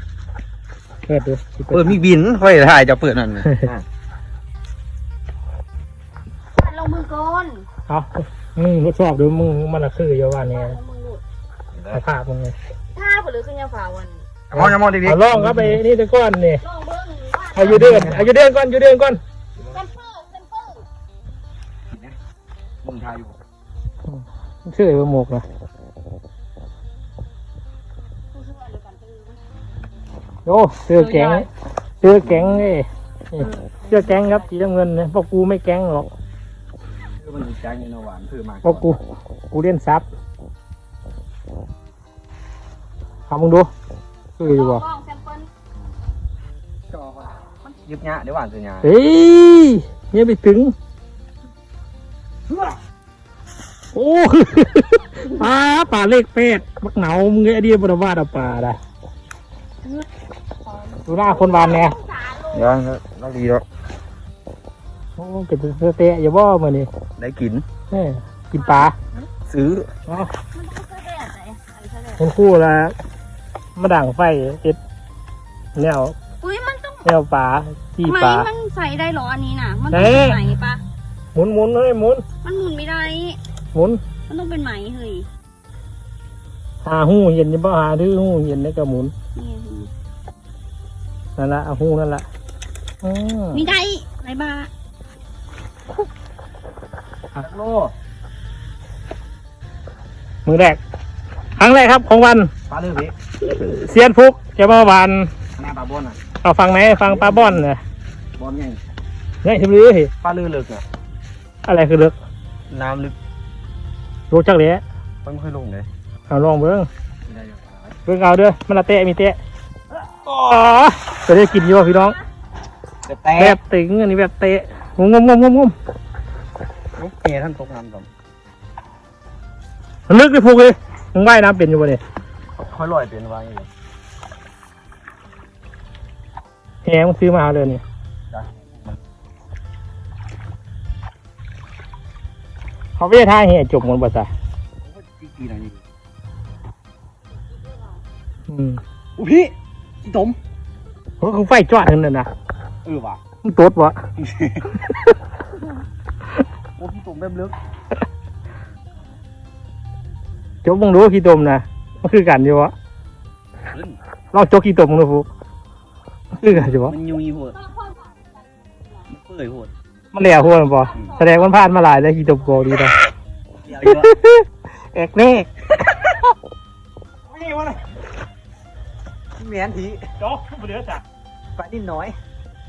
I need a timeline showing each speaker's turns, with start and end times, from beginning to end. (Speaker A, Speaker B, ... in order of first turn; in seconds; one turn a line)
Speaker A: 1.1-1.9
Speaker B: 1.7-3.9
Speaker C: 6.6-7.7
Speaker A: 7.9-10.8
Speaker C: 10.4-11.2
Speaker B: 11.7-12.0
Speaker A: 11.9-12.6
Speaker C: 12.9-14.2
Speaker B: 14.5-15.8
Speaker A: 14.5-16.6
Speaker C: 16.6-17.8
Speaker A: 17.5-19.2
Speaker B: 17.6-18.3
Speaker C: 19.7-20.9
Speaker B: 21.9-22.2
Speaker B: 22.8-23.4
Speaker A: 24.1-25.4
Speaker C: 28.3-29.4
Speaker A: 30.5-31.5
Speaker C: 30.9-31.5
Speaker A: 32.0-36.1
Speaker B: 32.1-32.7
Speaker C: 33.4-34.5
Speaker B: 37.2-38.9
Speaker A: 38.6-39.0
Speaker A: 39.5-40.0
Speaker A: 43.3-43.7
Speaker A: 44.4-44.9
Speaker C: 44.4-45.5
Speaker B: 46.9-48.9
Speaker A: 48.8-50.8
Speaker B: 52.5-52.8
Speaker A: 53.9-58.8
Speaker C: 60.6-62.7
Speaker A: 61.1-62.0
Speaker B: 62.5-63.6
Speaker A: 65.2-66.9
Speaker B: 67.2-67.7
Speaker A: 67.9-68.9
Speaker C: 68.6-69.0
Speaker B: 69.5-69.9
Speaker C: 70.5-72.2
Speaker A: 72.2-73.0
Speaker A: 73.8-74.8
Speaker A: 75.8-76.2
Speaker C: 76.4-77.1
Speaker A: 77.0-78.5
Speaker C: 78.0-80.8
Speaker A: 79.9-80.4
Speaker A: 81.3-82.2
Speaker C: 82.4-83.4
Speaker A: 83.7-84.0
Speaker C: 84.3-85.3
Speaker A: 86.8-89.1
Speaker C: 89.3-89.9
Speaker A: 91.4-92.3
Speaker A: 93.0-93.6
Speaker C: 93.5-94.7
Speaker B: 97.4-97.9
Speaker A: 100.5-100.8
Speaker A: 101.6-102.5
Speaker B: 102.7-103.1
Speaker A: 103.4-105.3
Speaker B: 105.6-106.2
Speaker A: 106.4-107.8
Speaker B: 107.0-107.7
Speaker B: 108.4-109.0
Speaker A: 109.4-110.1
Speaker B: 110.2-110.8
Speaker A: 111.7-112.1
Speaker B: 112.7-113.2
Speaker A: 114.3-114.8
Speaker B: 115.2-115.9
Speaker A: 116.3-116.9
Speaker B: 117.3-118.0
Speaker A: 118.1-119.4
Speaker A: 120.2-122.2
Speaker B: 123.1-123.6
Speaker A: 123.4-125.8
Speaker B: 127.0-128.1
Speaker A: 130.1-132.0
Speaker B: 132.6-133.7
Speaker A: 136.8-137.8
Speaker B: 138.3-139.0
Speaker A: 143.0-144.3
Speaker B: 144.8-145.8
Speaker A: 148.5-148.8
Speaker B: 149.2-150.4
Speaker A: 151.2-152.3
Speaker B: 152.8-153.2
Speaker A: 153.4-154.0
Speaker B: 154.2-154.9
Speaker B: 156.8-157.6
Speaker A: 160.6-162.7
Speaker B: 163.7-164.0
Speaker A: 164.3-165.3
Speaker A: 166.4-167.0
Speaker B: 166.7-167.6
Speaker C: 167.8-168.2
Speaker B: 169.1-169.7
Speaker A: 170.1-172.9
Speaker B: 170.9-171.2
Speaker B: 173.6-174.1
Speaker A: 173.9-175.5
Speaker B: 177.3-177.6
Speaker B: 179.4-180.1
Speaker A: 180.2-181.0
Speaker B: 181.6-182.2